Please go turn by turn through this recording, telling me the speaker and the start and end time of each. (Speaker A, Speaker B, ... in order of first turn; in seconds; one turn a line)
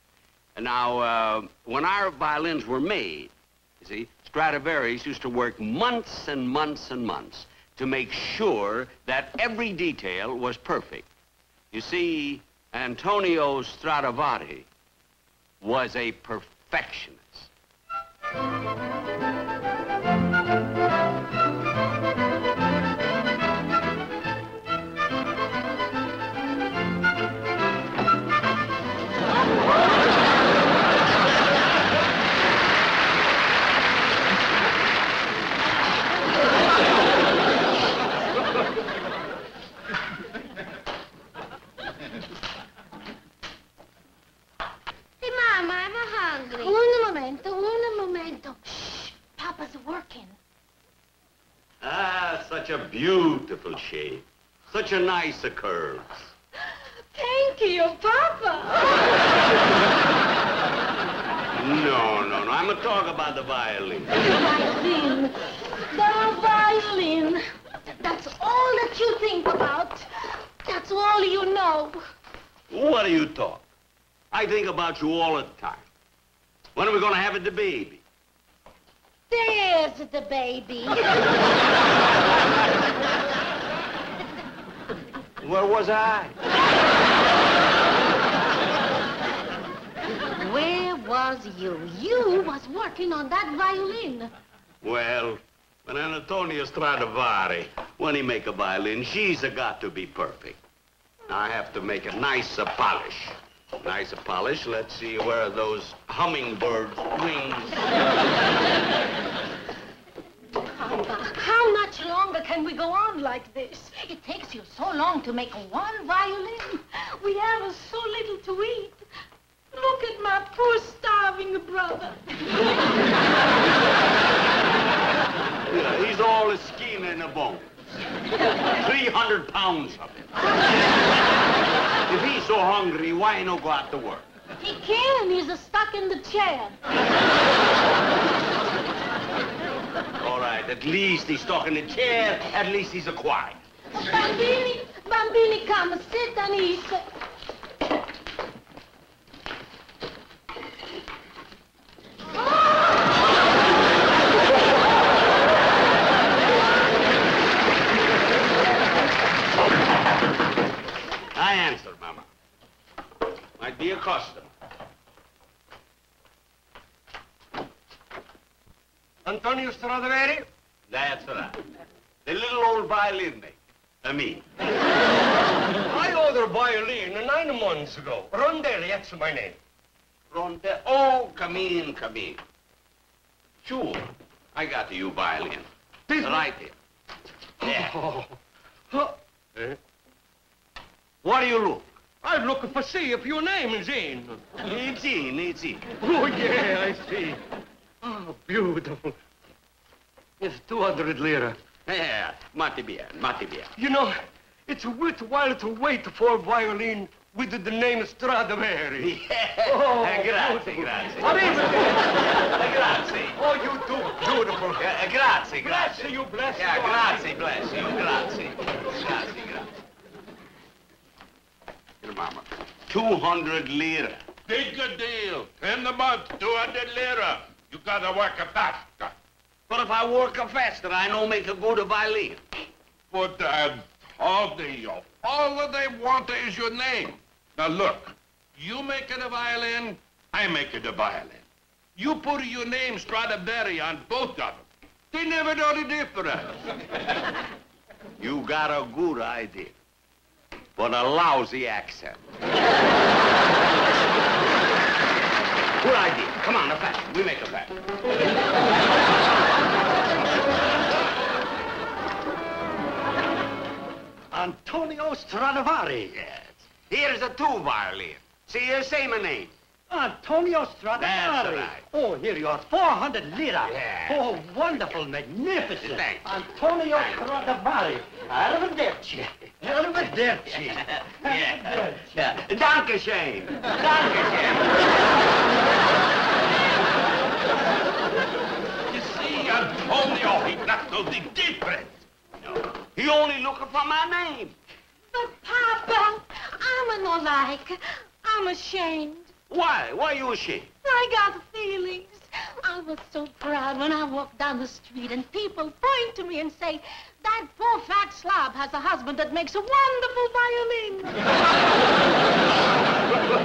Speaker A: 0.6-11.1
Speaker A: 11.7-14.7
Speaker A: 15.6-17.5
Speaker B: 45.2-50.4
Speaker A: 51.8-56.3
Speaker B: 56.7-59.1
Speaker A: 61.6-64.2
Speaker B: 64.2-65.3
Speaker B: 65.9-67.4
Speaker B: 68.0-70.1
Speaker B: 70.6-72.0
Speaker A: 72.7-73.7
Speaker A: 74.3-75.9
Speaker A: 76.8-78.0
Speaker B: 79.3-81.1
Speaker A: 85.4-86.4
Speaker B: 90.4-94.3
Speaker A: 94.8-100.6
Speaker A: 101.3-107.9
Speaker B: 110.8-119.0
Speaker B: 119.7-122.2
Speaker A: 125.7-127.7
Speaker A: 128.7-130.3
Speaker A: 132.1-134.2
Speaker B: 134.6-136.8
Speaker A: 140.2-143.6
Speaker B: 144.0-147.0
Speaker A: 161.3-162.3
Speaker A: 163.6-164.5
Speaker C: 169.2-170.5
Speaker A: 170.9-171.6
Speaker A: 172.2-174.5
Speaker C: 175.9-179.6
Speaker A: 180.3-182.4
Speaker A: 183.6-186.8
Speaker C: 186.1-186.5
Speaker A: 187.6-188.0
Speaker C: 187.6-188.4
Speaker C: 188.9-189.8
Speaker A: 191.2-191.8
Speaker C: 192.2-194.6
Speaker A: 194.6-195.8
Speaker C: 196.0-197.4
Speaker C: 198.0-199.2
Speaker C: 200.4-201.6
Speaker A: 201.8-203.7
Speaker C: 203.8-209.1
Speaker A: 209.0-213.4
Speaker C: 209.7-212.2
Speaker C: 213.3-214.9
Speaker A: 214.5-219.7
Speaker C: 215.6-217.3
Speaker A: 222.0-224.2
Speaker D: 224.5-229.1
Speaker A: 229.7-232.4
Speaker D: 233.1-246.6
Speaker A: 248.2-249.8
Speaker A: 250.8-252.2
Speaker A: 255.8-257.8
Speaker E: 264.3-266.4
Speaker A: 266.3-269.6
Speaker E: 269.9-282.2
Speaker A: 271.0-271.9
Speaker A: 273.6-274.3
Speaker A: 275.8-276.3
Speaker A: 276.9-277.3
Speaker A: 280.5-284.9
Speaker D: 288.9-292.0
Speaker A: 292.4-294.6
Speaker B: 295.1-299.3
Speaker A: 299.5-300.7
Speaker B: 300.8-311.3